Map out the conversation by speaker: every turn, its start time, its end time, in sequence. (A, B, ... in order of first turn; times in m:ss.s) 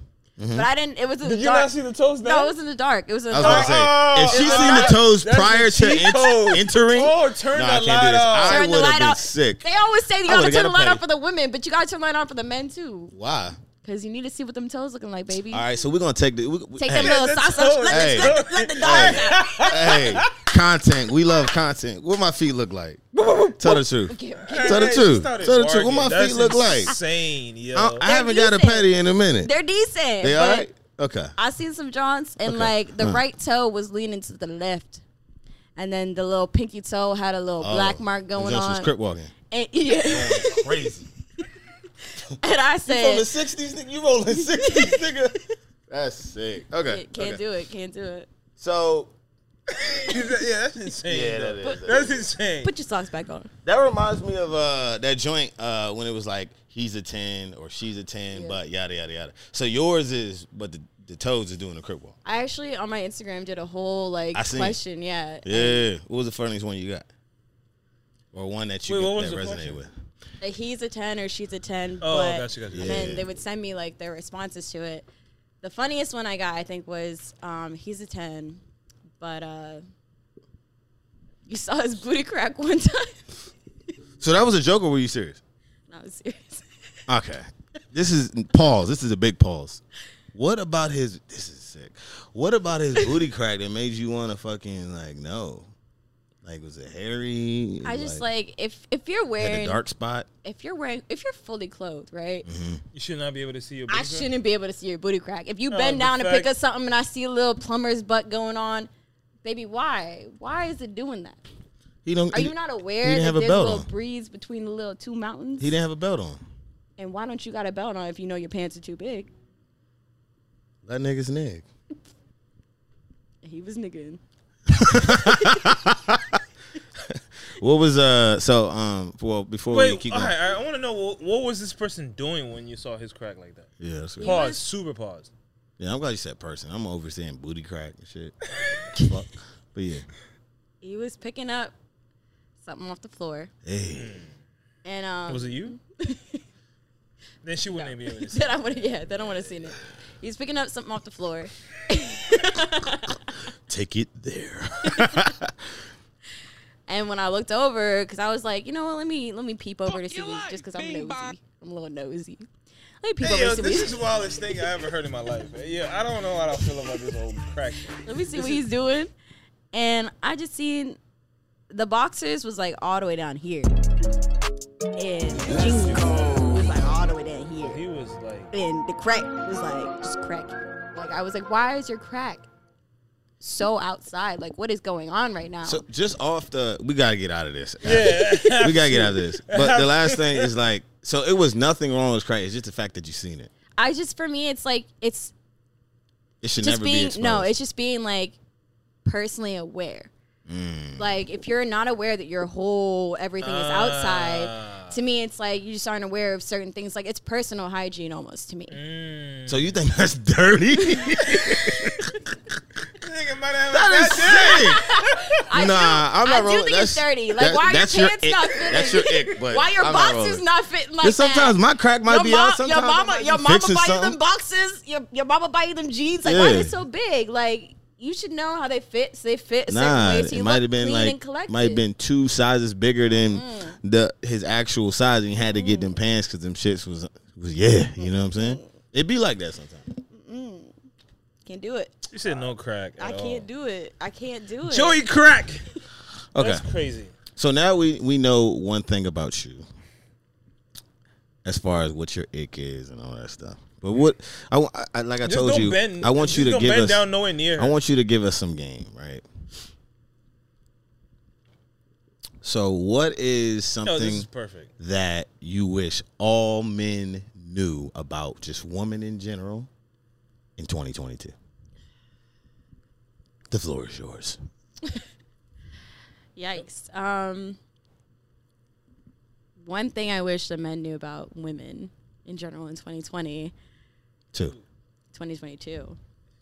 0:00.4-0:00.7 A
0:00.5-0:01.7 B
0:01.2-0:02.5 C
0:02.2-0:05.0 B
0:03.3-0:09.7 A
0:03.4-0:08.7 C
0:05.9-0:06.6 B
0:08.4-0:13.1 B
0:10.2-0:11.0 A
0:13.1-0:13.6 A
0:13.8-0:15.6 B
0:15.5-0:17.2 A
0:16.8-0:20.2 B
0:16.9-0:20.5 C
0:17.8-0:26.9 A
0:23.2-0:25.0 B
0:24.4-0:28.1 C
0:27.7-0:29.5 A
0:28.0-0:28.9 B
0:29.4-0:30.7 B
0:30.2-0:31.3 A
0:31.4-0:35.0 B
0:32.4-0:33.2 A
0:35.8-0:38.9 B
0:37.6-0:39.3 A
0:39.5-0:40.7 B
0:40.0-0:41.1 A
0:42.1-0:43.3 B
0:42.8-0:47.4 A
0:44.3-0:45.5 B
0:46.8-0:48.3 B
0:48.6-0:49.1 A
0:49.8-0:52.7 C
0:51.0-0:52.3 A
0:52.6-0:53.5 B
0:53.6-1:02.1 A
0:58.3-0:58.6 B
1:02.2-1:05.9 B
1:04.3-1:04.8 A
1:05.4-1:07.1 A
1:08.3-1:09.9 A
1:08.9-1:09.8 C
1:10.4-1:15.0 B
1:12.0-1:13.2 C
1:12.7-1:13.3 A
1:15.6-1:18.6 B
1:19.2-1:19.8 B
1:21.5-1:23.2 B
1:24.2-1:25.4 A
1:25.9-1:26.6 B
1:27.1-1:29.8 A
1:30.3-1:35.7 A
1:36.4-1:38.2 A
1:37.8-1:39.8 B
1:39.4-1:40.3 A
1:40.4-1:42.5 B
1:42.4-1:42.8 A
1:42.9-1:44.3 C
1:43.9-1:48.9 B
1:45.7-1:46.5 C
1:49.4-1:51.4 B
1:52.0-1:53.9 A
1:52.3-1:55.7 B
1:55.6-1:56.4 A
1:57.0-1:59.3 B
2:00.8-2:01.6 A
2:03.4-2:04.2 B
2:04.7-2:06.4 A
2:04.8-2:05.7 B
2:07.0-2:10.4 A
2:09.7-2:15.3 C
2:13.8-2:14.3 A
2:14.2-2:14.6 B
2:15.8-2:18.4 A
2:18.5-2:18.8 C
2:18.9-2:20.1 A
2:20.8-2:21.7 B
2:22.6-2:23.5 B
2:23.6-2:24.2 A
2:23.9-2:24.3 C
2:24.8-2:26.4 B
2:25.3-2:25.8 C
2:27.4-2:29.6 C
2:27.7-2:33.2 B
2:33.7-2:35.8 A
2:34.8-2:35.3 B
2:36.9-2:42.5 B
2:43.0-2:44.0 B
2:43.2-2:48.6 C
2:48.0-2:49.1 B
2:49.7-2:51.0 B
2:51.7-2:53.7 B
2:55.0-2:57.8 B
2:55.3-2:56.9 C
2:57.6-2:58.5 C
2:58.5-3:02.5 B
3:03.4-3:05.8 B
3:05.6-3:13.5 A
3:07.8-3:10.5 C
3:13.8-3:15.3 B
3:16.4-3:17.5 A
3:16.6-3:18.4 B
3:19.0-3:20.1 B
3:20.5-3:21.2 A
3:21.0-3:28.8 B
3:23.4-3:25.0 C
3:28.7-3:29.8 C
3:29.5-3:32.6 A
3:30.9-3:31.8 B
3:32.9-3:35.4 C
3:33.7-3:34.8 A
3:34.4-3:51.8 B
3:35.5-3:40.4 A
3:41.0-3:44.2 A
3:46.2-3:46.8 A
3:49.7-3:59.9 A
3:53.2-3:53.8 B
3:55.5-3:56.0 B
3:58.0-3:58.7 B
4:00.1-4:00.7 B
4:01.4-4:02.4 B
4:02.1-4:03.5 C
4:03.0-4:05.0 B
4:04.6-4:05.7 C
4:06.3-4:06.6 A
4:06.4-4:07.1 C
4:07.4-4:09.6 A
4:11.4-4:19.2 A
4:15.2-4:17.8 C
4:22.4-4:24.3 A
4:23.8-4:24.7 C
4:24.8-4:29.7 A
4:30.6-4:31.3 A
4:33.5-4:34.4 A
4:36.4-4:37.6 B
4:39.6-4:43.5 B
4:45.1-4:46.0 B